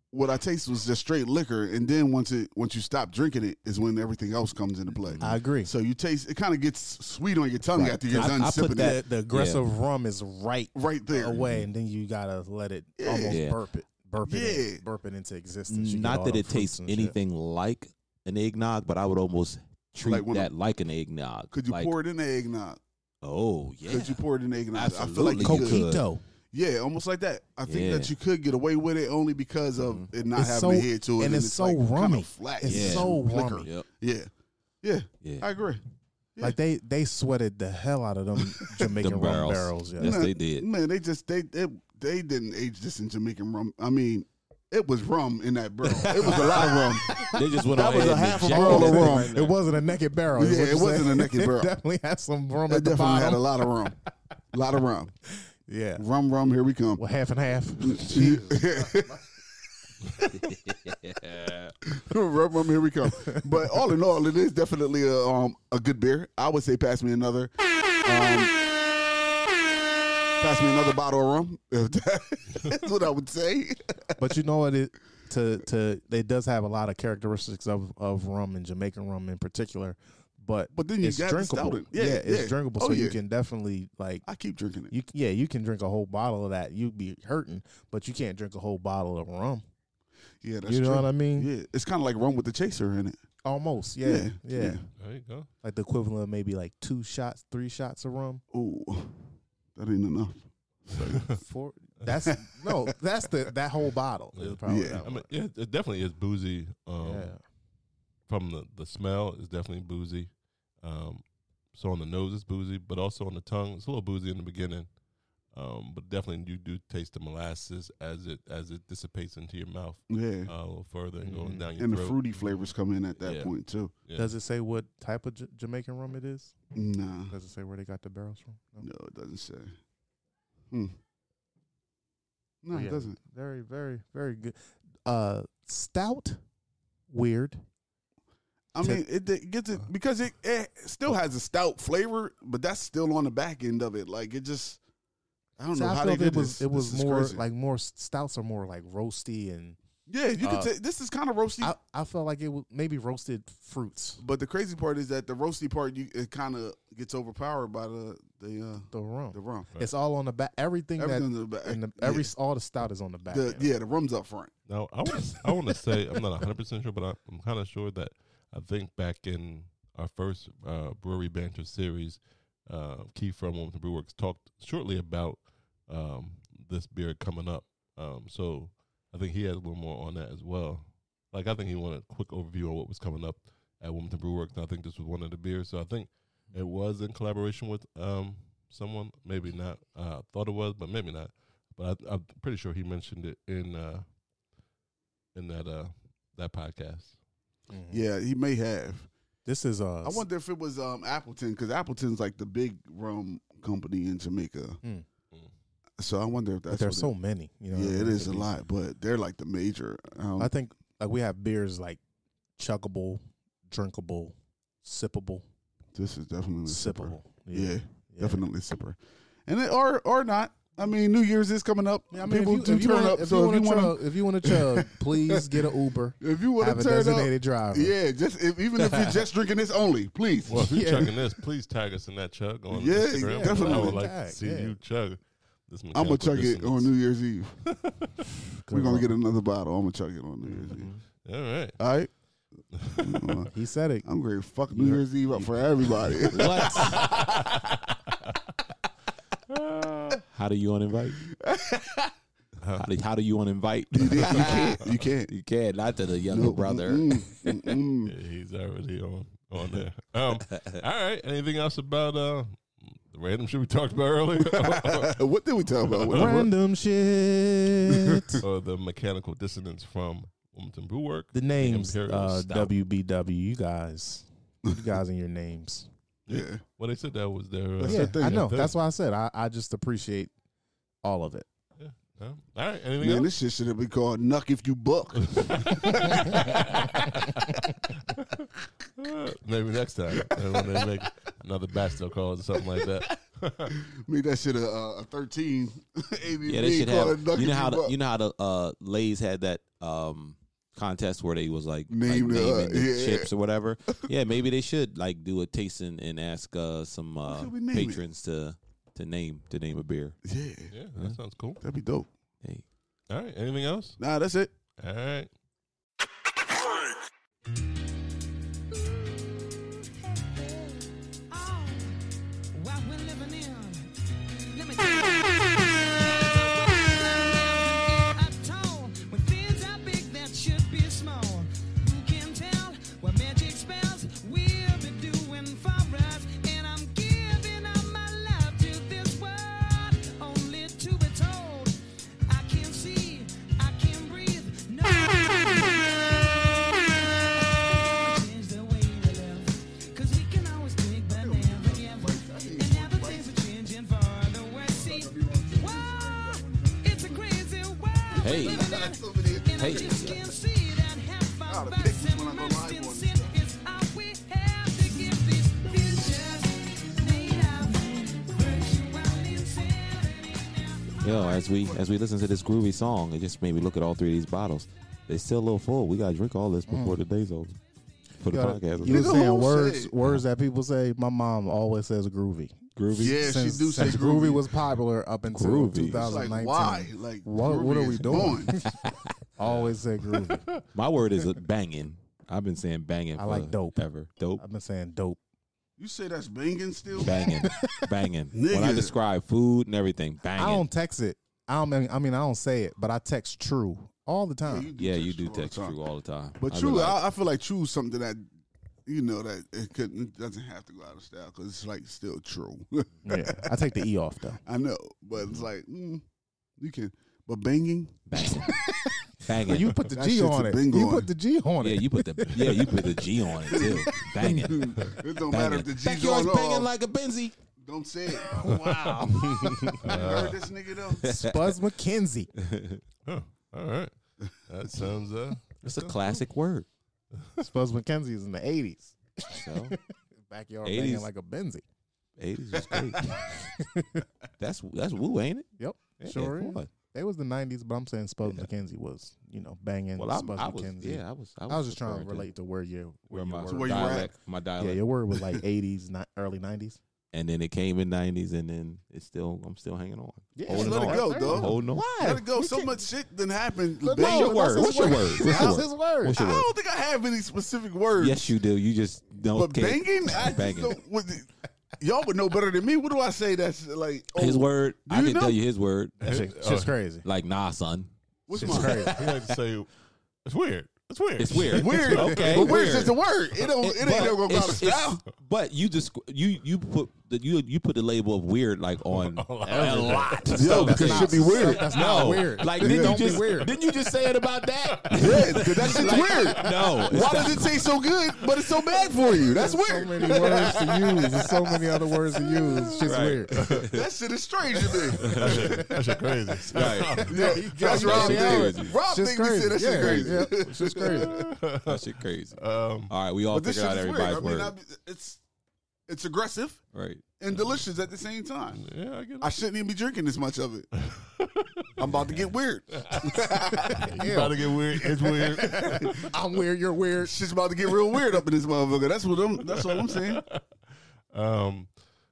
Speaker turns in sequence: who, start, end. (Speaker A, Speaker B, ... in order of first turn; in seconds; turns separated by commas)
Speaker A: 0.1-9.0, Speaker B: 5.0-5.4, Speaker C: 5.2-5.7, Speaker B: 7.7-9.6, Speaker C: 7.8-17.2, Speaker A: 10.7-11.4, Speaker B: 11.3-11.7, Speaker A: 13.0-13.4, Speaker B: 13.2-13.6, Speaker A: 14.2-14.8, Speaker B: 15.7-21.9, Speaker A: 20.0-20.5, Speaker A: 21.5-22.8, Speaker B: 23.2-26.0, Speaker A: 23.9-25.9, Speaker C: 25.4-26.2, Speaker A: 26.5-34.3, Speaker B: 27.6-28.1, Speaker B: 29.8-30.1, Speaker C: 30.3-33.7, Speaker B: 32.6-33.9, Speaker A: 34.8-35.8, Speaker B: 35.2-35.5, Speaker C: 36.4-40.2, Speaker B: 39.0-40.7, Speaker A: 40.0-49.3, Speaker B: 45.9-49.6, Speaker C: 46.6-53.7, Speaker A: 50.3-51.8, Speaker A: 52.7-54.0, Speaker A: 54.5-55.1, Speaker C: 55.7-56.0, Speaker A: 56.0-57.0, Speaker C: 57.0-58.6, Speaker A: 57.8-59.2, Speaker B: 60.2-61.8, Speaker A: 61.9-67.5, Speaker A: 68.0-68.5, Speaker A: 70.4-74.0, Speaker C: 74.2-84.2, Speaker A: 80.7-83.2, Speaker A: 84.2-84.9, Speaker C: 84.9-89.6, Speaker A: 90.4-93.2, Speaker C: 90.6-91.5, Speaker C: 93.4-94.8, Speaker A: 94.0-94.9, Speaker D: 95.0-95.5, Speaker C: 95.6-98.4, Speaker A: 98.5-101.4, Speaker D: 101.0-101.4, Speaker C: 101.3-105.3, Speaker A: 102.2-102.8, Speaker D: 104.3-107.3, Speaker A: 104.7-105.0, Speaker C: 107.0-107.4, Speaker D: 108.3-114.9, Speaker D: 115.5-122.2, Speaker A: 120.1-120.5, Speaker C: 121.2-121.7, Speaker A: 121.8-123.9, Speaker D: 123.2-123.5, Speaker D: 124.0-124.3, Speaker C: 124.1-126.5, Speaker A: 126.7-127.3, Speaker C: 127.3-128.9, Speaker A: 128.8-129.7, Speaker A: 130.7-130.9, Speaker A: 132.6-133.2, Speaker C: 132.7-136.4, Speaker C: 137.1-137.6, Speaker A: 138.7-144.8, Speaker A: 145.6-147.4, Speaker C: 145.7-149.8, Speaker A: 150.1-151.7, Speaker C: 150.4-150.7, Speaker C: 151.6-154.2, Speaker A: 154.2-159.7, Speaker C: 158.9-163.7, Speaker A: 161.0-162.3, Speaker A: 163.3-164.5, Speaker D: 164.7-194.0, Speaker D: 195.3-197.2, Speaker C: 197.7-198.1, Speaker A: 197.9-199.1, Speaker C: 199.4-200.2, Speaker A: 200.0-204.8, Speaker A: 206.0-207.1, Speaker C: 206.7-208.5, Speaker A: 207.7-210.5, Speaker C: 210.4-212.0, Speaker C: 212.6-215.4, Speaker A: 215.9-225.7, Speaker C: 216.7-218.4, Speaker C: 222.1-227.9, Speaker A: 226.2-230.7, Speaker D: 230.5-236.9, Speaker C: 230.5-231.2, Speaker A: 232.7-234.0, Speaker C: 233.2-234.8, Speaker A: 235.9-237.6, Speaker D: 237.7-238.1, Speaker C: 238.6-239.1, Speaker A: 238.7-240.9, Speaker D: 241.2-241.8, Speaker A: 241.8-242.1, Speaker D: 242.7-243.5, Speaker A: 243.0-243.5, Speaker C: 243.5-244.1, Speaker A: 244.0-247.2, Speaker C: 244.8-245.5, Speaker B: 246.3-247.1, Speaker D: 246.8-247.8, Speaker D: 249.5-250.2, Speaker B: 250.3-251.2, Speaker A: 251.4-252.1, Speaker D: 252.6-252.9, Speaker B: 252.8-257.2, Speaker A: 253.9-255.3, Speaker A: 256.3-258.1, Speaker D: 258.0-265.2, Speaker B: 260.4-260.8, Speaker A: 264.4-266.5, Speaker D: 265.8-266.5, Speaker C: 266.1-268.4, Speaker D: 268.4-272.6, Speaker C: 271.3-275.9, Speaker D: 276.3-278.7, Speaker A: 276.3-276.6, Speaker A: 277.8-278.5, Speaker C: 277.8-280.3, Speaker C: 281.0-281.5, Speaker D: 281.8-283.3, Speaker A: 283.0-286.5, Speaker D: 285.2-293.8, Speaker C: 286.0-286.4, Speaker A: 290.3-290.9, Speaker A: 292.8-293.0, Speaker A: 293.7-297.9, Speaker B: 296.4-310.2, Speaker A: 301.9-303.3, Speaker A: 307.3-308.0, Speaker A: 310.2-310.7, Speaker D: 310.7-311.6, Speaker A: 311.6-312.1, Speaker D: 313.1-314.0, Speaker A: 314.0-314.5, Speaker D: 314.8-315.3, Speaker E: 318.7-322.0, Speaker E: 322.5-323.9, Speaker E: 324.5-371.7, Speaker A: 351.1-353.3, Speaker A: 354.8-356.8, Speaker A: 358.1-360.2, Speaker B: 358.2-358.7, Speaker B: 359.6-360.2, Speaker A: 361.5-363.3, Speaker B: 371.0-377.6, Speaker C: 376.7-377.0, Speaker B: 378.2-379.2, Speaker C: 378.3-388.7, Speaker A: 378.8-379.9, Speaker B: 382.8-383.4, Speaker A: 383.0-384.5, Speaker B: 385.2-386.2, Speaker A: 385.9-388.6, Speaker B: 388.7-389.1, Speaker C: 389.4-390.5, Speaker D: 389.4-390.6, Speaker B: 390.7-394.4, Speaker C: 393.2-393.8, Speaker C: 394.4-395.2, Speaker A: 395.8-397.2, Speaker B: 397.0-400.7, Speaker C: 397.2-397.9, Speaker A: 398.3-398.9, Speaker C: 400.3-404.7, Speaker A: 404.4-405.8, Speaker B: 404.8-407.0, Speaker A: 406.4-408.3, Speaker A: 408.9-413.4, Speaker C: 413.0-414.4, Speaker A: 414.4-416.0, Speaker A: 416.6-418.0, Speaker B: 418.1-418.6, Speaker B: 419.2-419.8, Speaker C: 419.4-422.9, Speaker A: 419.9-421.1, Speaker B: 421.6-427.4, Speaker A: 423.4-426.7, Speaker C: 423.5-424.0, Speaker A: 427.6-428.6, Speaker B: 428.4-429.8, Speaker D: 428.4-430.4, Speaker C: 429.0-429.9, Speaker A: 429.8-431.1, Speaker B: 431.0-431.6, Speaker C: 431.0-432.3, Speaker B: 432.4-432.8, Speaker D: 433.1-433.9, Speaker D: 434.4-435.6, Speaker B: 435.6-436.7, Speaker C: 437.4-441.6, Speaker B: 439.3-439.8, Speaker B: 440.6-441.1, Speaker B: 442.2-443.2, Speaker C: 442.7-444.0, Speaker B: 444.4-445.5, Speaker C: 445.6-456.8, Speaker B: 446.0-446.7, Speaker B: 450.0-452.3, Speaker B: 453.1-454.8, Speaker A: 453.5-454.1, Speaker B: 457.1-462.0, Speaker C: 460.4-462.8, Speaker A: 460.5-465.6, Speaker C: 463.8-466.2, Speaker B: 463.9-466.5, Speaker A: 466.1-468.3, Speaker B: 467.9-470.8, Speaker A: 469.3-475.4, Speaker B: 474.1-476.0, Speaker D: 476.0-476.8, Speaker C: 476.0-477.0, Speaker B: 477.0-479.3, Speaker A: 478.3-478.9, Speaker C: 478.3-479.0, Speaker D: 478.8-479.7, Speaker D: 480.2-482.3, Speaker B: 481.2-483.0, Speaker A: 481.5-485.0, Speaker B: 483.6-497.6, Speaker D: 488.9-491.1, Speaker C: 490.3-493.5, Speaker A: 490.4-491.7, Speaker A: 492.6-493.1, Speaker D: 494.6-497.4, Speaker A: 494.9-501.6, Speaker C: 499.2-503.4, Speaker B: 502.8-503.9, Speaker D: 503.3-503.7, Speaker A: 503.7-505.8, Speaker B: 504.9-505.6, Speaker D: 505.0-507.5, Speaker B: 506.5-508.8, Speaker A: 506.6-511.2, Speaker C: 507.1-511.1, Speaker B: 509.7-510.3, Speaker D: 510.9-512.9, Speaker B: 511.6-514.5, Speaker A: 513.3-515.2, Speaker A: 515.9-516.6, Speaker B: 516.7-517.0, Speaker A: 517.2-518.6, Speaker D: 518.5-519.3, Speaker A: 519.2-520.7, Speaker D: 520.8-521.7, Speaker A: 521.8-524.0, Speaker C: 523.5-527.1, Speaker D: 523.7-526.1, Speaker A: 527.0-530.2, Speaker D: 529.5-530.4, Speaker D: 531.1-531.7